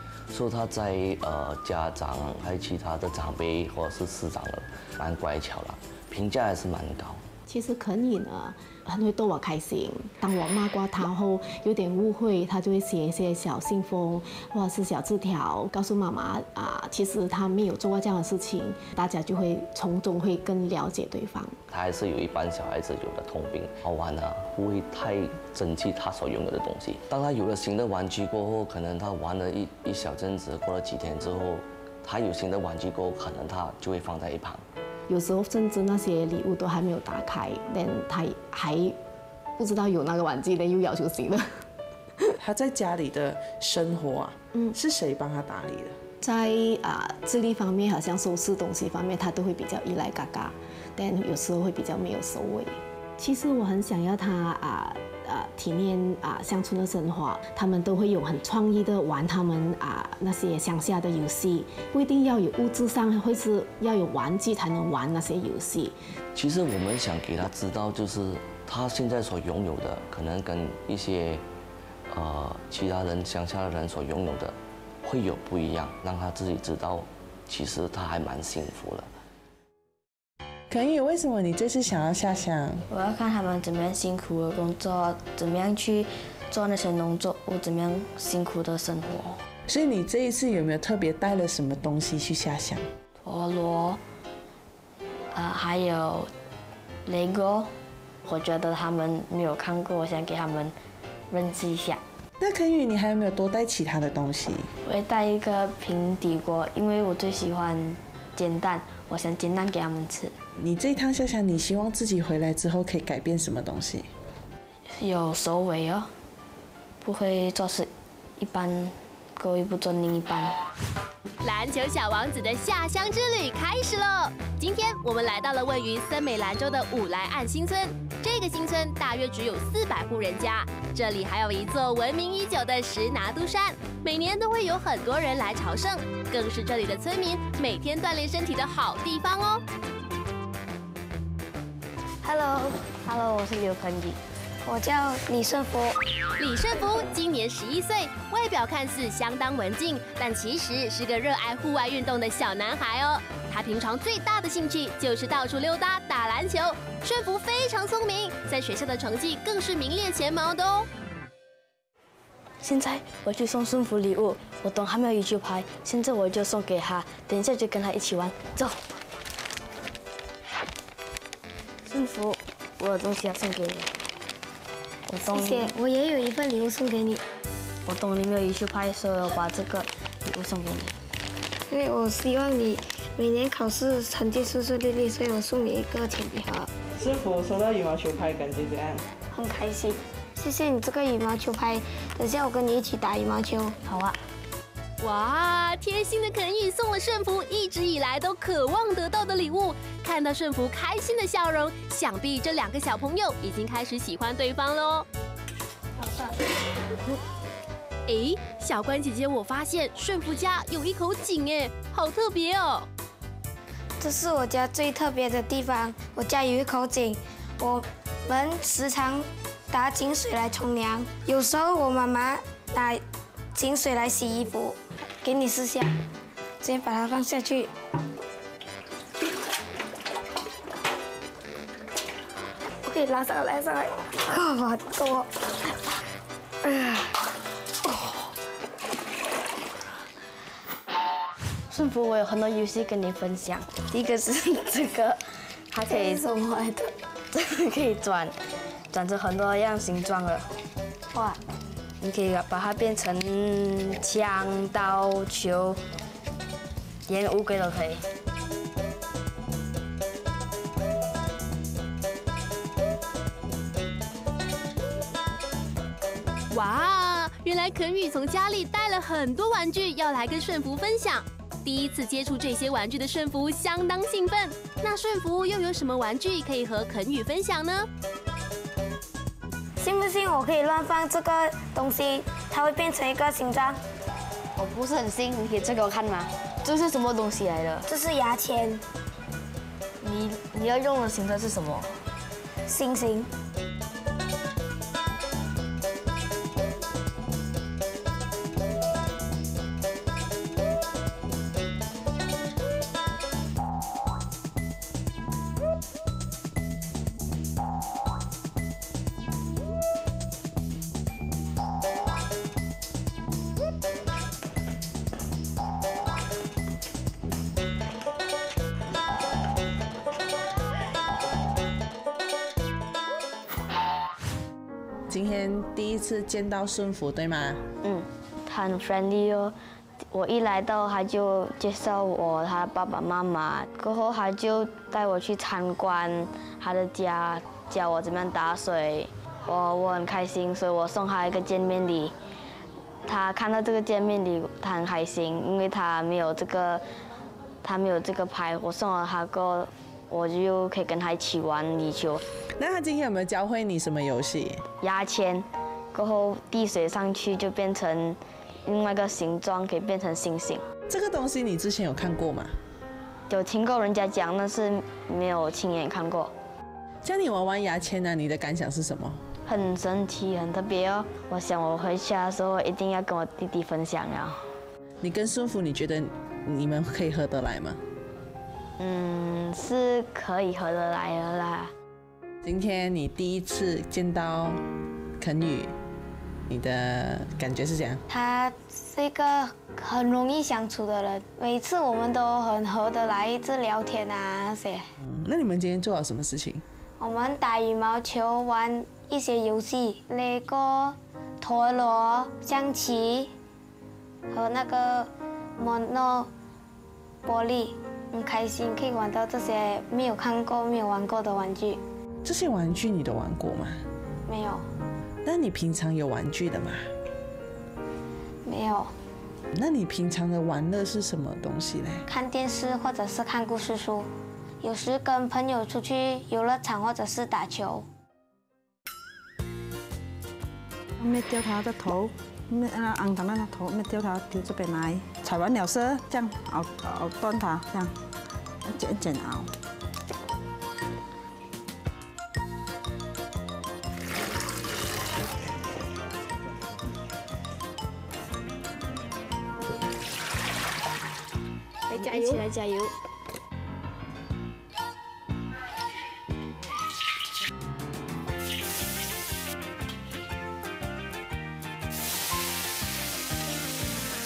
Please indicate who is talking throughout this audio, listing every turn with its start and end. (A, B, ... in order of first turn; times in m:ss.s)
0:00.3-0:07.2 A
0:07.5-0:21.6 B
0:21.7-0:34.6 A
0:35.1-0:39.0 B
0:39.6-0:41.6 B
0:42.4-0:46.0 C
0:46.2-1:06.0 B
1:06.3-1:11.4 A
1:12.1-1:19.1 A
1:20.7-1:22.8 C
1:22.9-1:29.4 D
1:29.7-1:32.8 C
1:33.2-1:34.0 D
1:35.3-1:36.3 D
1:37.0-1:37.7 D
1:38.2-1:40.7 D
1:41.3-1:42.0 D
1:42.4-1:44.7 C
1:44.8-1:50.3 D
1:50.6-1:54.1 C
1:55.0-1:56.1 D
1:57.0-2:00.5 D
2:01.4-2:19.6 E
2:22.2-2:24.2 D
2:24.6-2:26.0 F
2:26.4-2:40.9 E
2:42.6-2:48.8 D
2:51.8-2:53.9 D
2:55.1-2:55.7 D
2:55.2-2:57.2 F
2:57.8-3:00.9 D
3:01.7-3:06.7 F
3:07.0-3:09.0 C
3:09.3-3:13.8 F
3:13.8-3:14.2 D
3:15.0-3:25.1 E
3:26.0-3:26.3 F
3:28.1-3:32.9 E
3:34.0-3:43.0 F
3:43.5-3:45.9 F
3:46.6-3:47.7 F
3:52.8-3:55.3 F
4:01.7-4:06.2 D
4:05.9-4:06.9 F
4:07.3-4:08.3 D
4:08.9-4:10.5 D
4:11.1-4:11.4 F
4:12.0-4:15.8 D
4:17.1-4:18.0 D
4:26.5-4:37.9 E
4:39.8-4:43.8 F
4:44.6-4:47.9 D
4:47.9-4:48.8 F
4:50.0-4:51.9 D
4:52.6-4:53.3 F
5:25.1-5:27.6 C
5:27.8-5:29.5 D
5:30.1-5:42.1 D
5:43.0-5:46.8 D
5:47.6-5:52.2 D
5:52.6-5:54.6 C
5:54.8-6:00.6 D
6:00.9-6:02.5 C
6:03.3-6:06.3 D
6:07.0-6:09.2 C
6:09.4-6:14.4 D
6:15.0-6:17.8 C
6:18.8-6:21.7 D
6:22.4-6:24.6 C
6:25.2-6:25.8 C
6:26.5-6:28.0 C
6:28.1-6:34.9 F
6:35.0-6:36.6 C
6:37.0-6:43.3 F
6:44.3-6:46.3 F
6:47.2-6:51.8 F
6:52.2-6:53.8 C
6:54.3-6:54.6 F
6:55.2-6:56.9 C
6:58.4-6:58.9 F
6:59.5-7:02.0 C
7:02.1-7:04.1 F
7:04.6-7:07.8 F
7:11.0-7:17.9 G
7:18.6-7:19.5 G
7:31.9-7:32.9 D
7:31.9-7:32.4 F